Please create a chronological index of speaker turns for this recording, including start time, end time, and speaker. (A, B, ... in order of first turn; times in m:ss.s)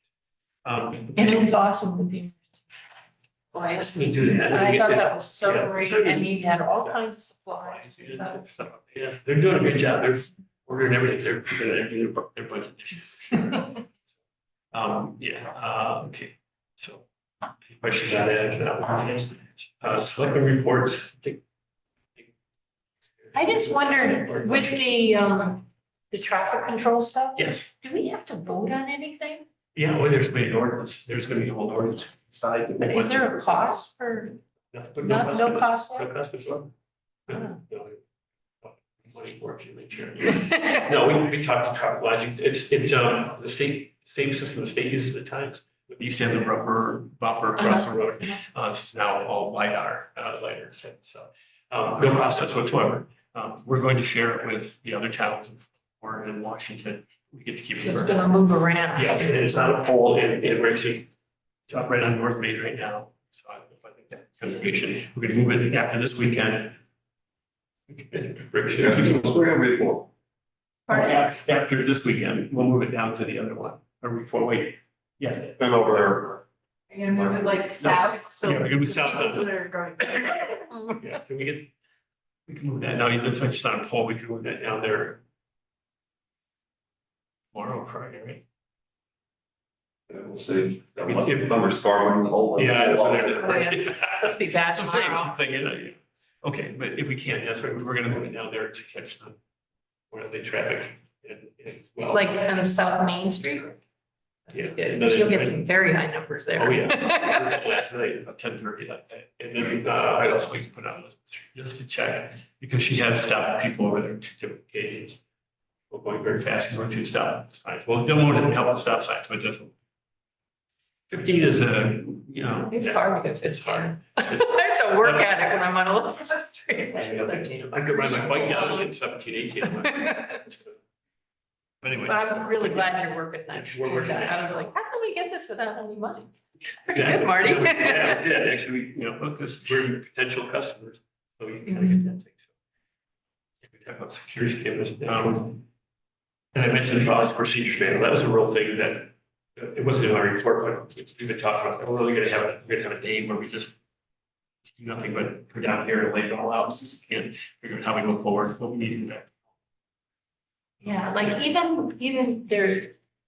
0:00.6-0:01.5 A
0:01.2-0:02.6 B
0:03.5-0:03.9 B
0:03.6-0:06.9 A
0:04.4-0:08.5 B
0:07.6-0:13.8 A
0:14.7-0:17.0 A
0:17.7-0:21.4 A
0:23.2-0:24.8 A
0:23.3-0:29.4 B
0:27.4-0:27.7 A
0:29.7-0:33.7 A
0:32.8-0:34.4 B
0:34.7-0:36.7 A
0:35.0-0:36.1 B
0:37.3-0:38.0 A
0:38.6-0:58.3 A
0:47.6-0:47.8 B
0:57.8-0:59.4 B
0:58.9-1:01.1 A
1:01.7-1:06.8 A
1:07.9-1:09.3 A
1:08.8-1:10.1 C
1:10.9-1:11.2 B
1:10.9-1:15.6 A
1:15.6-1:16.4 C
1:16.9-1:21.1 B
1:17.8-1:21.7 A
1:22.5-1:25.2 A
1:27.5-1:28.4 A
1:30.1-1:33.4 C
1:31.0-1:31.5 A
1:32.6-1:39.4 A
1:32.8-1:35.4 B
1:40.1-1:42.3 A
1:42.1-1:43.8 B
1:44.5-1:45.6 A
1:44.5-1:47.6 B
1:46.5-1:55.2 A
1:55.9-1:59.7 A
2:01.1-2:05.3 A
2:02.7-2:08.9 B
2:06.9-2:10.7 A
2:09.8-2:10.4 B
2:11.8-2:13.0 A
2:11.9-2:18.2 B
2:13.5-2:14.6 A
2:16.9-2:22.5 A
2:21.7-2:22.0 B
2:23.6-2:25.6 A
2:26.5-2:33.8 A
2:34.8-2:39.4 A
2:40.8-2:42.9 B
2:40.8-2:41.4 A